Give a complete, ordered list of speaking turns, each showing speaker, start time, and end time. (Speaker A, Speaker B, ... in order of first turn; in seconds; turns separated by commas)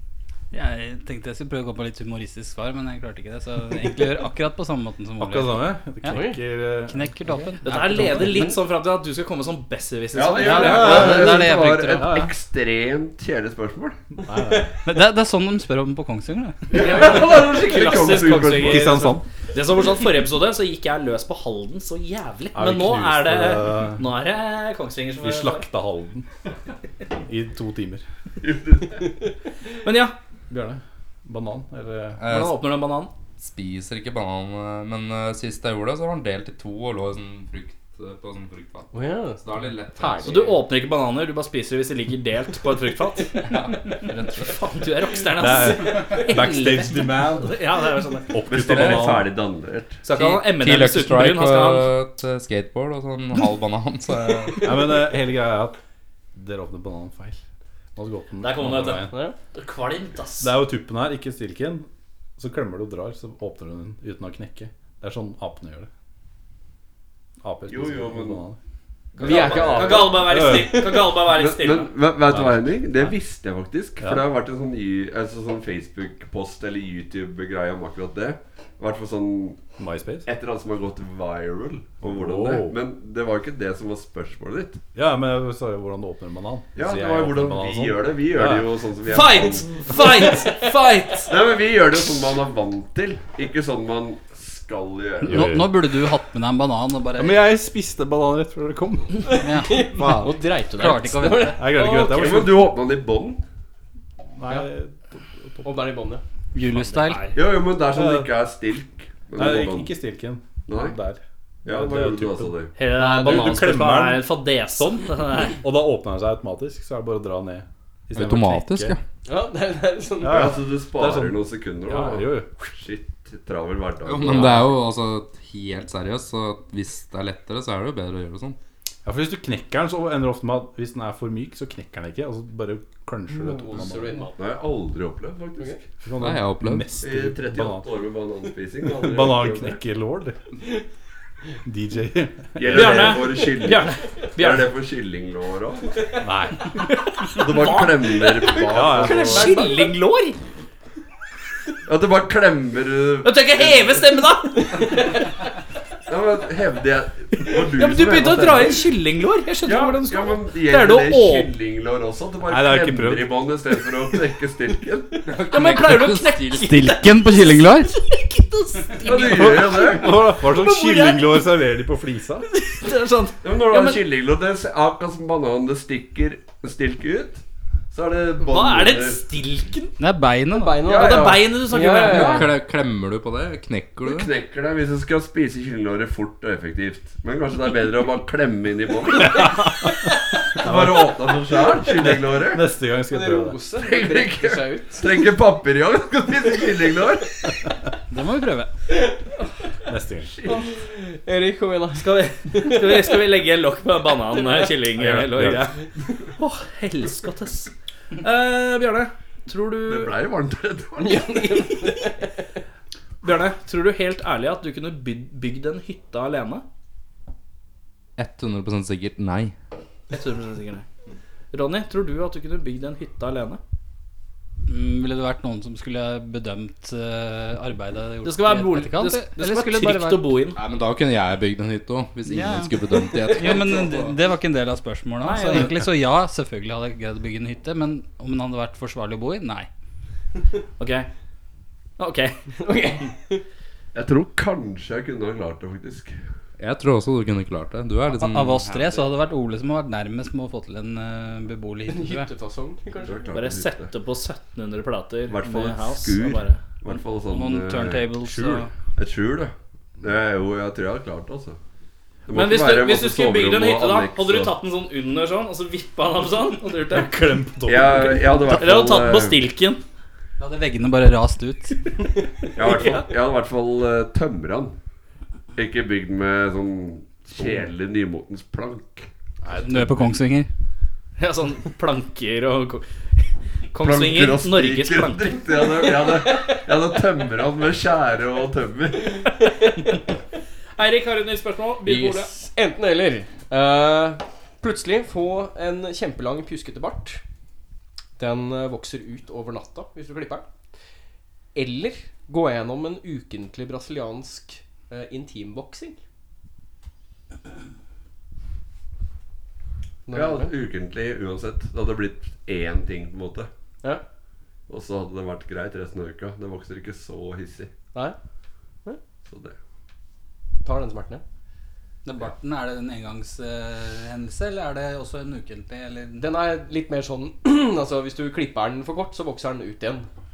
Speaker A: 0.5-6.3, Speaker B: 5.2-8.4, Speaker C: 6.1-6.4, Speaker A: 6.8-8.6, Speaker D: 7.6-11.3, Speaker E: 10.1-14.0, Speaker A: 10.4-12.3, Speaker B: 14.2-14.7, Speaker A: 14.8-16.7, Speaker E: 16.7-19.1, Speaker D: 16.8-25.7, Speaker B: 18.6-19.2, Speaker B: 22.5-24.1, Speaker B: 25.2-26.3, Speaker B: 27.2-28.1, Speaker E: 28.4-29.2, Speaker D: 29.8-30.1, Speaker B: 30.5-32.2, Speaker F: 32.2-32.7, Speaker D: 32.3-33.1, Speaker F: 33.4-40.5, Speaker C: 38.9-39.4, Speaker C: 40.0-40.5, Speaker D: 40.2-48.4, Speaker F: 43.5-44.5, Speaker B: 45.4-47.6, Speaker B: 48.3-49.3, Speaker E: 48.5-50.0, Speaker D: 50.0-51.9, Speaker F: 50.1-54.8, Speaker B: 54.6-55.8, Speaker B: 56.4-57.4, Speaker B: 58.0-59.1, Speaker D: 58.4-60.6, Speaker C: 59.1-59.4, Speaker B: 60.4-61.9, Speaker B: 62.4-65.9, Speaker B: 67.4-68.6, Speaker E: 67.7-68.5, Speaker E: 69.2-70.3, Speaker C: 69.2-71.0, Speaker D: 69.2-72.0, Speaker B: 70.0-70.9, Speaker E: 71.3-79.6, Speaker B: 72.3-72.8, Speaker B: 79.8-80.3, Speaker E: 80.2-84.8, Speaker B: 82.0-82.8, Speaker B: 85.0-88.7, Speaker E: 86.8-89.9, Speaker D: 89.1-91.3, Speaker C: 89.9-91.1, Speaker E: 91.3-95.6, Speaker A: 95.3-97.4, Speaker B: 95.3-95.8, Speaker B: 97.2-99.3, Speaker C: 99.3-102.5, Speaker A: 99.3-101.8, Speaker B: 101.5-102.7, Speaker E: 102.1-103.4, Speaker B: 104.4-105.7, Speaker C: 105.6-106.2, Speaker A: 106.5-107.3, Speaker D: 106.9-107.3, Speaker E: 107.3-109.9, Speaker B: 107.9-108.3, Speaker B: 109.3-119.0, Speaker E: 110.7-111.0, Speaker E: 111.7-112.7, Speaker D: 112.8-115.6, Speaker F: 118.1-119.0, Speaker C: 119.3-120.5, Speaker B: 120.2-122.5, Speaker E: 120.2-124.8, Speaker F: 124.0-128.6, Speaker B: 129.1-134.3, Speaker C: 133.4-134.4, Speaker E: 134.4-135.8, Speaker B: 136.0-137.9, Speaker F: 136.2-137.0, Speaker E: 137.0-139.8, Speaker B: 139.0-140.4, Speaker B: 141.6-143.2, Speaker E: 142.6-146.0, Speaker D: 142.7-144.7, Speaker B: 146.2-146.7, Speaker D: 146.9-150.4, Speaker E: 147.3-149.6, Speaker B: 148.7-149.6, Speaker C: 149.3-149.8, Speaker E: 151.8-154.1, Speaker D: 153.2-155.1, Speaker E: 156.1-158.9, Speaker D: 157.7-161.5, Speaker E: 159.6-165.3, Speaker B: 162.5-163.4, Speaker F: 165.3-166.8, Speaker D: 165.5-171.4, Speaker A: 166.7-167.9, Speaker B: 166.8-167.9, Speaker E: 169.0-170.2, Speaker B: 169.2-172.5, Speaker D: 172.5-174.0, Speaker E: 173.4-179.3, Speaker D: 178.4-180.0, Speaker A: 180.0-180.8, Speaker C: 180.5-182.5, Speaker E: 180.8-181.6, Speaker D: 180.9-182.5, Speaker F: 182.0-184.3, Speaker E: 184.0-189.8, Speaker B: 189.3-189.9, Speaker E: 190.5-192.7, Speaker B: 190.6-193.6, Speaker C: 193.1-195.3, Speaker E: 193.7-197.4, Speaker A: 198.1-198.7, Speaker B: 199.9-200.4, Speaker C: 200.5-203.2, Speaker D: 202.0-205.8, Speaker B: 205.0-205.7, Speaker D: 206.3-210.2, Speaker E: 209.9-211.6, Speaker C: 211.0-212.3, Speaker D: 213.2-216.7, Speaker F: 218.2-219.6, Speaker D: 220.1-220.9, Speaker D: 221.5-223.6, Speaker A: 224.7-230.3, Speaker D: 228.2-230.6, Speaker F: 230.5-234.2, Speaker A: 232.3-239.7, Speaker D: 235.2-235.8, Speaker D: 240.8-241.1, Speaker D: 242.0-242.4, Speaker C: 242.6-243.4, Speaker E: 243.9-246.2, Speaker F: 246.6-249.0, Speaker A: 248.1-252.3, Speaker C: 251.9-253.3, Speaker E: 253.0-253.9, Speaker D: 253.3-256.6, Speaker E: 255.3-261.6, Speaker A: 257.3-258.7, Speaker E: 262.3-264.6, Speaker D: 262.3-267.1, Speaker B: 266.9-268.4, Speaker E: 267.6-269.4, Speaker D: 268.5-269.8, Speaker A: 270.4-271.9, Speaker E: 272.6-274.8, Speaker E: 275.6-279.1, Speaker B: 279.4-280.2, Speaker A: 279.6-280.5, Speaker D: 281.2-285.4, Speaker E: 283.8-289.2, Speaker D: 290.8-292.3, Speaker C: 291.9-297.2, Speaker C: 298.2-300.5, Speaker C: 301.6-306.0, Speaker C: 310.1-310.5, Speaker E: 310.1-313.5, Speaker E: 314.7-317.7, Speaker E: 319.3-319.6, Speaker C: 320.6-321.2, Speaker A: 322.1-326.3, Speaker C: 326.2-330.1